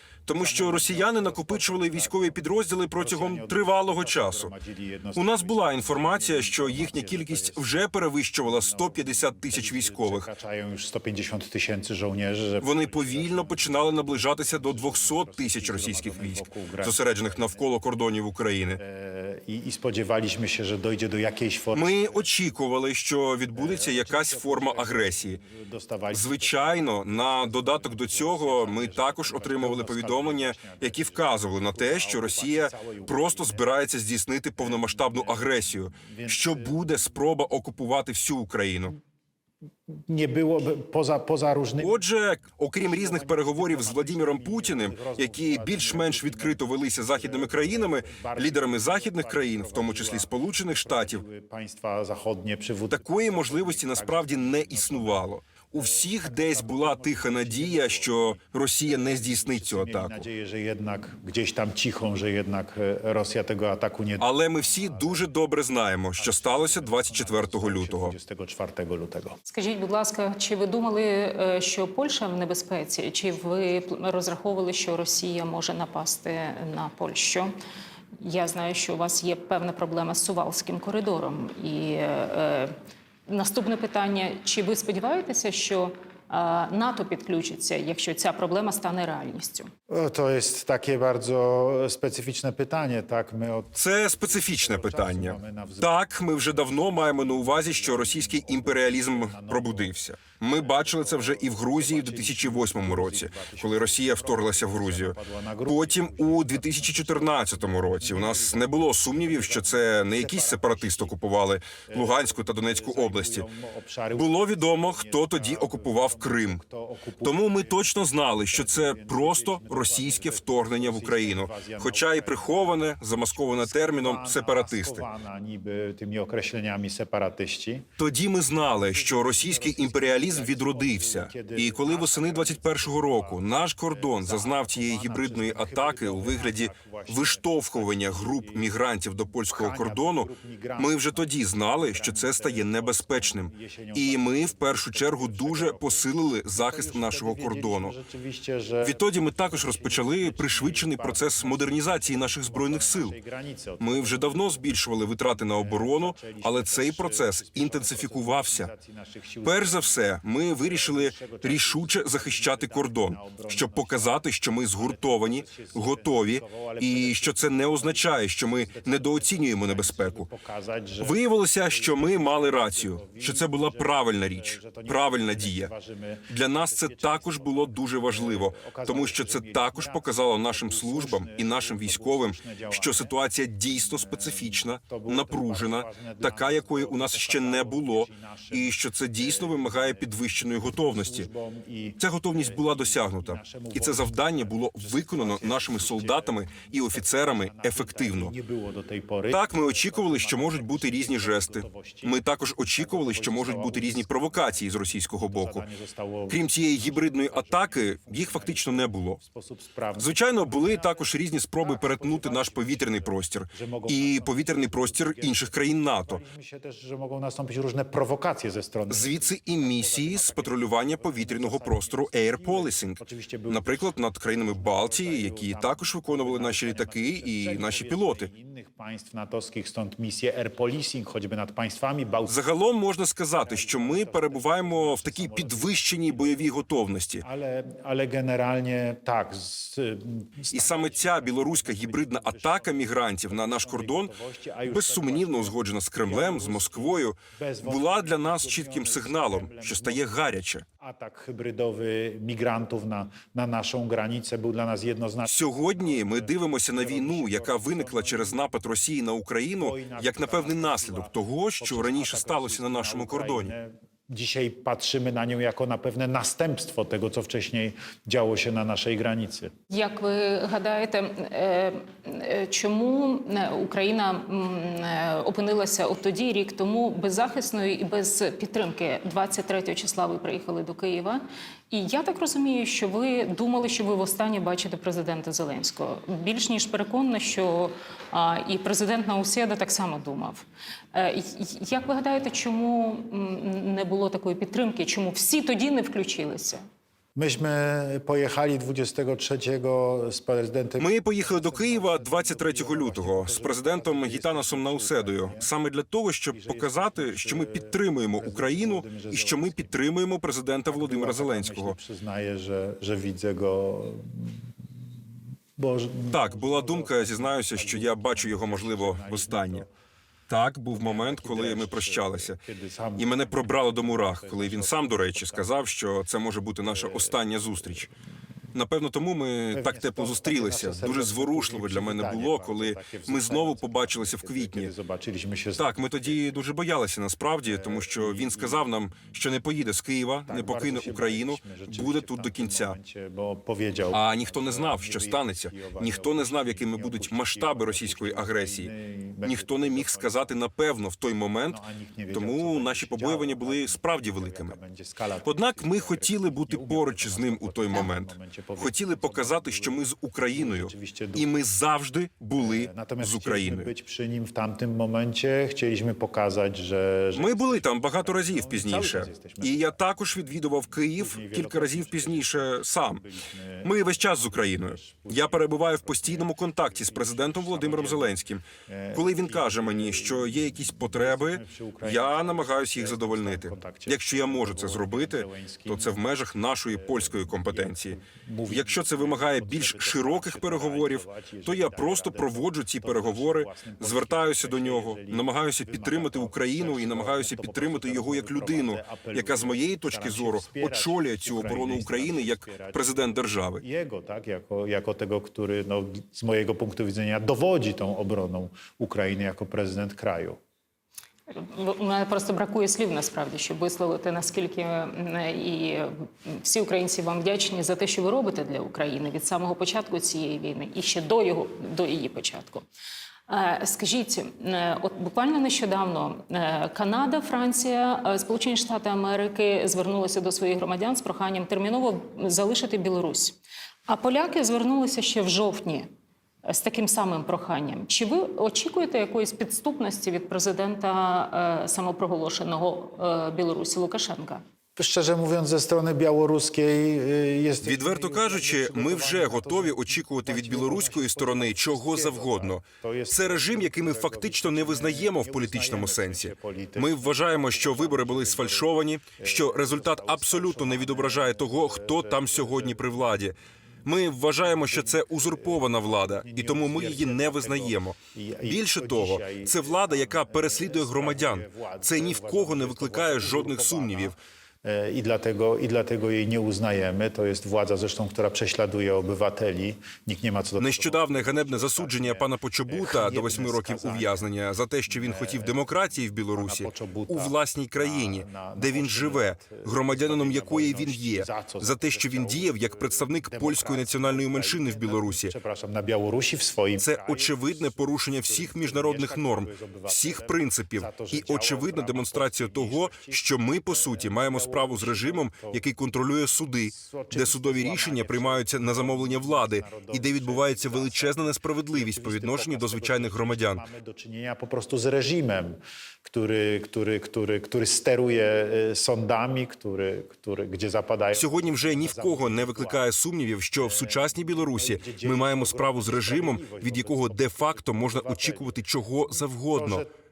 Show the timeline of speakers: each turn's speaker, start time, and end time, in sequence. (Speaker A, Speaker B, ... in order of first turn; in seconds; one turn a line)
Speaker A: 0.2-4.5
Speaker B: 0.3-2.4
Speaker B: 2.9-7.7
Speaker A: 5.1-10.3
Speaker B: 8.4-17.6
Speaker A: 12.6-18.8
Speaker B: 18.8-22.2
Speaker A: 21.7-25.4
Speaker B: 23.5-33.6
Speaker A: 26.1-39.0
Speaker B: 34.6-36.8
Speaker B: 39.9-41.9
Speaker A: 41.8-51.2
Speaker B: 42.8-65.3
Speaker A: 52.9-60.3
Speaker A: 64.2-68.1
Speaker B: 66.2-69.4
Speaker C: 69.5-77.5
Speaker C: 78.2-82.7
Speaker C: 83.3-89.7
Speaker B: 89.9-95.9
Speaker A: 93.7-113.5
Speaker B: 96.5-99.9
Speaker B: 100.6-111.2
Speaker B: 111.8-117.9
Speaker A: 114.1-116.6
Speaker A: 117.2-125.1
Speaker B: 118.5-127.9
Speaker A: 128.0-147.9
Speaker B: 128.9-138.7
Speaker B: 139.5-164.2
Speaker A: 148.8-153.2
Speaker A: 153.8-158.7
Speaker A: 159.4-170.3
Speaker B: 164.8-183.2
Speaker A: 171.0-175.7
Speaker A: 176.3-191.3
Speaker B: 183.7-202.2
Speaker A: 192.0-198.3
Speaker A: 199.3-205.6
Speaker B: 202.7-232.4
Speaker A: 206.3-209.2
Speaker A: 210.0-216.2
Speaker A: 218.9-228.3
Speaker A: 232.2-237.2
Speaker B: 233.4-236.4
Speaker B: 237.2-258.5
Speaker A: 240.5-244.1
Speaker A: 244.7-250.6
Speaker A: 255.2-263.5
Speaker B: 259.6-269.5
Speaker C: 269.7-296.6
Speaker B: 297.1-305.5
Speaker A: 300.8-311.8
Speaker B: 306.3-309.7
Speaker B: 310.7-314.4
Speaker B: 315.6-319.7
Speaker A: 316.1-319.6
Speaker A: 320.3-322.4
Speaker B: 320.7-325.5
Speaker A: 323.0-327.9
Speaker B: 326.7-327.2
Speaker A: 328.5-334.7
Speaker B: 329.5-336.3
Speaker A: 335.6-342.8
Speaker B: 337.4-338.6
Speaker B: 340.3-350.3
Speaker A: 343.9-348.7
Speaker A: 349.2-351.6
Speaker B: 351.5-361.2
Speaker A: 352.1-354.6
Speaker A: 355.2-363.7
Speaker B: 362.4-369.7
Speaker A: 367.1-373.0
Speaker B: 370.9-386.0
Speaker A: 373.6-388.0
Speaker B: 386.6-402.9
Speaker A: 388.5-403.6
Speaker B: 403.6-410.4
Speaker C: 411.3-422.6
Speaker C: 423.3-433.4
Speaker C: 433.9-435.9
Speaker C: 436.4-444.4
Speaker B: 444.8-463.1
Speaker A: 447.6-474.2
Speaker B: 464.4-484.2
Speaker A: 480.6-495.3
Speaker B: 484.9-485.7
Speaker B: 486.3-505.6
Speaker A: 496.8-513.6
Speaker B: 506.7-522.8
Speaker A: 521.1-529.8
Speaker B: 523.6-528.6
Speaker B: 529.2-529.9